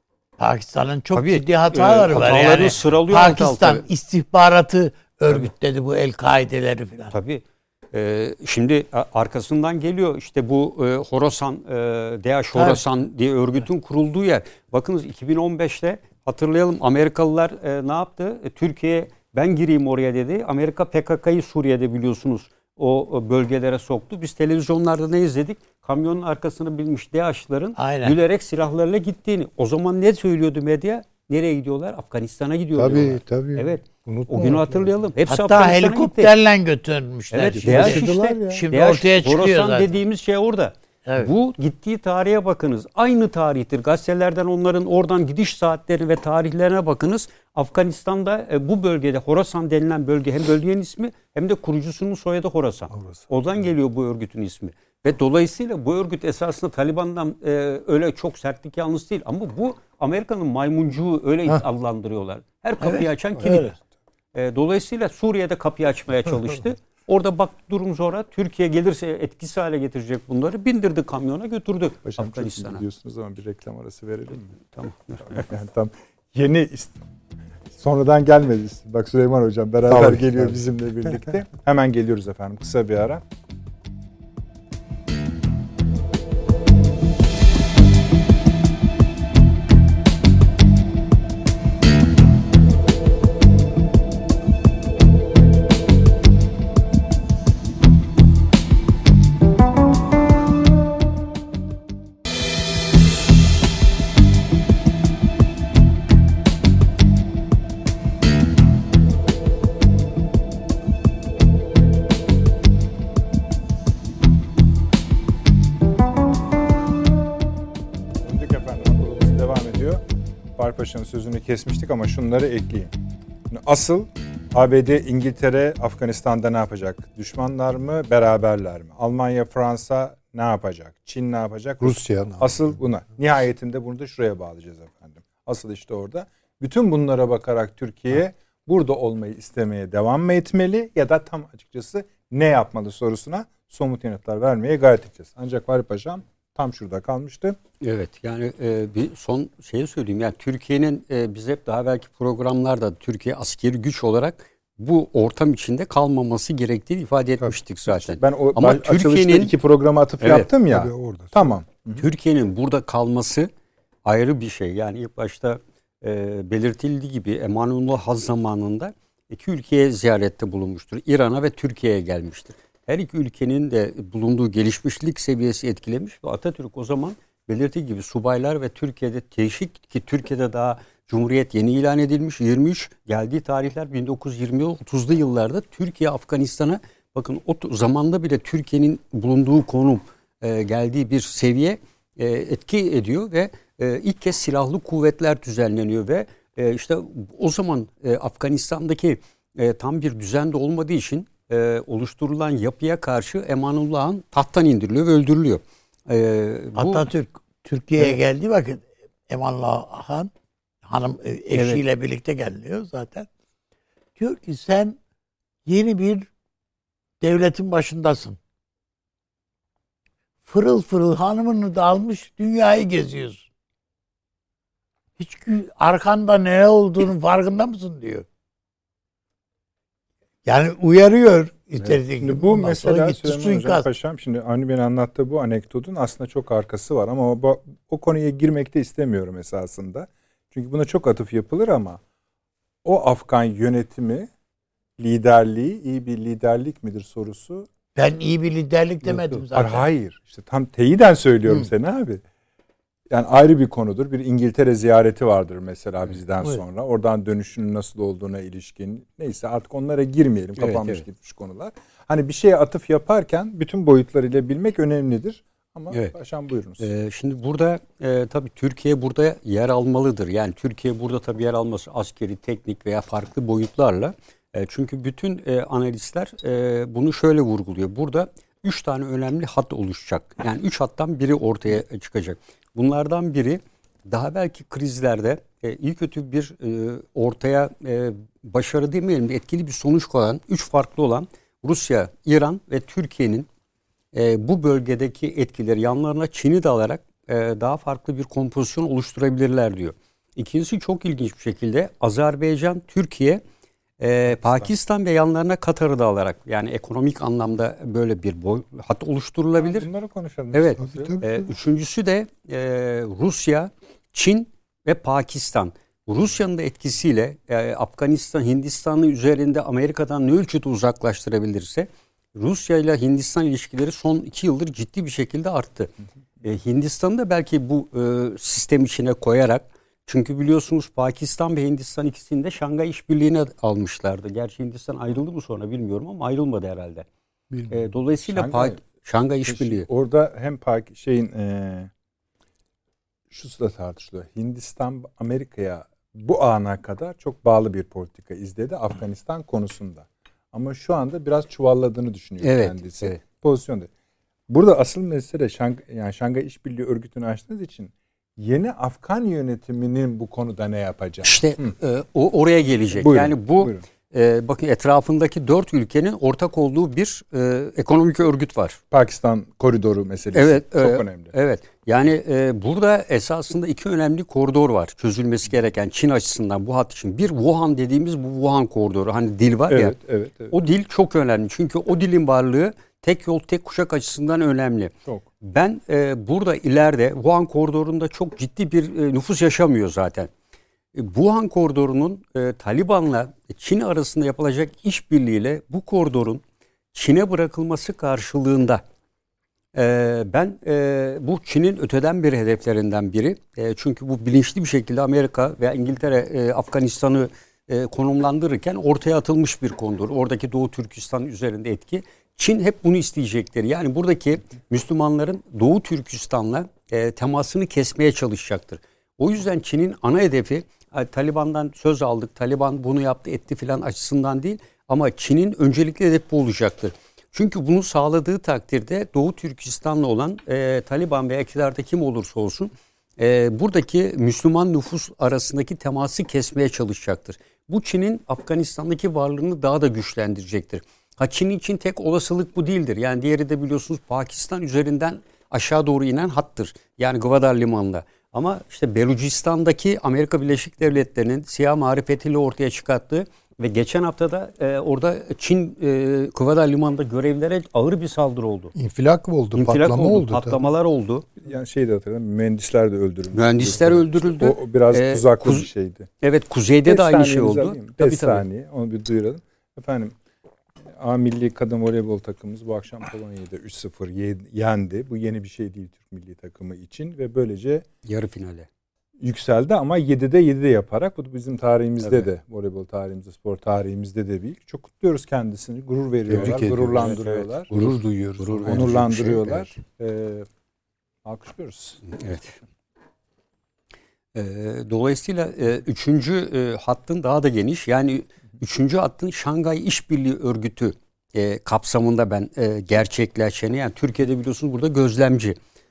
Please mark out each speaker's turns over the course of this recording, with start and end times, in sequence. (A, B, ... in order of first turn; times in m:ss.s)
0:00.4-0:07.2 A
0:01.1-0:03.9 B
0:07.1-0:36.3 B
0:12.5-0:12.8 A
0:27.8-0:28.2 A
0:32.7-0:34.9 C
0:35.3-0:40.0 A
0:37.3-1:03.8 B
0:37.6-0:38.7 C
0:52.9-0:53.3 C
1:02.8-1:03.8 A
1:04.3-1:12.8 B
1:12.0-1:14.6 D
1:14.7-1:15.4 B
1:15.3-1:17.0 D
1:17.7-1:23.2 D
1:19.9-1:20.6 C
1:58.2-2:00.0 D
2:00.6-2:02.9 D
2:03.5-2:27.6 D
2:11.8-2:12.8 C
2:27.8-2:39.5 B
2:37.9-2:42.1 D
2:40.2-2:40.5 B
2:40.7-2:41.6 C
2:42.0-2:43.5 B
2:44.0-3:27.1 B
3:26.8-3:30.3 A
3:30.8-3:33.3 A
3:31.5-3:31.8 B
3:34.2-3:35.0 A
3:35.7-3:36.3 A
3:37.2-3:38.4 A
3:40.4-3:43.5 A
3:45.2-3:48.3 A
3:50.4-3:53.9 A
3:51.8-4:02.0 D
4:02.8-4:04.3 D
4:05.0-4:07.7 D
4:08.0-4:09.9 A
4:09.0-4:12.2 D
4:13.1-4:26.9 D
4:20.6-4:21.0 B
4:26.8-4:53.5 B
4:54.1-5:03.4 B
5:04.0-5:09.9 B
5:04.3-5:04.7 D
5:09.6-5:11.2 D
5:10.5-5:37.1 B
5:10.8-5:11.5 C
5:37.7-5:39.9 B
5:38.2-5:38.8 D
5:39.5-5:41.9 D
5:43.3-5:53.9 D
5:52.4-5:53.2 B
5:54.5-6:01.8 D
6:01.2-6:08.8 B
6:02.9-6:03.8 D
6:08.9-6:11.3 D
6:10.3-6:20.0 B
6:19.7-6:20.5 D
6:20.5-6:30.3 B
6:31.0-6:38.8 B
6:39.7-7:38.7 B
7:38.7-7:40.6 C
7:39.6-7:41.3 B
7:41.4-7:46.1 D
7:43.3-7:45.7 B
7:46.2-7:48.4 B
7:46.9-7:50.2 D
7:51.0-7:57.8 D
7:58.0-7:58.7 B
7:59.2-8:07.7 D
8:02.0-8:02.3 B
8:06.3-8:09.5 C
8:06.6-8:09.8 B
8:08.6-8:10.5 D
8:11.2-8:12.2 D
8:12.1-8:12.6 B
8:14.3-8:25.6 B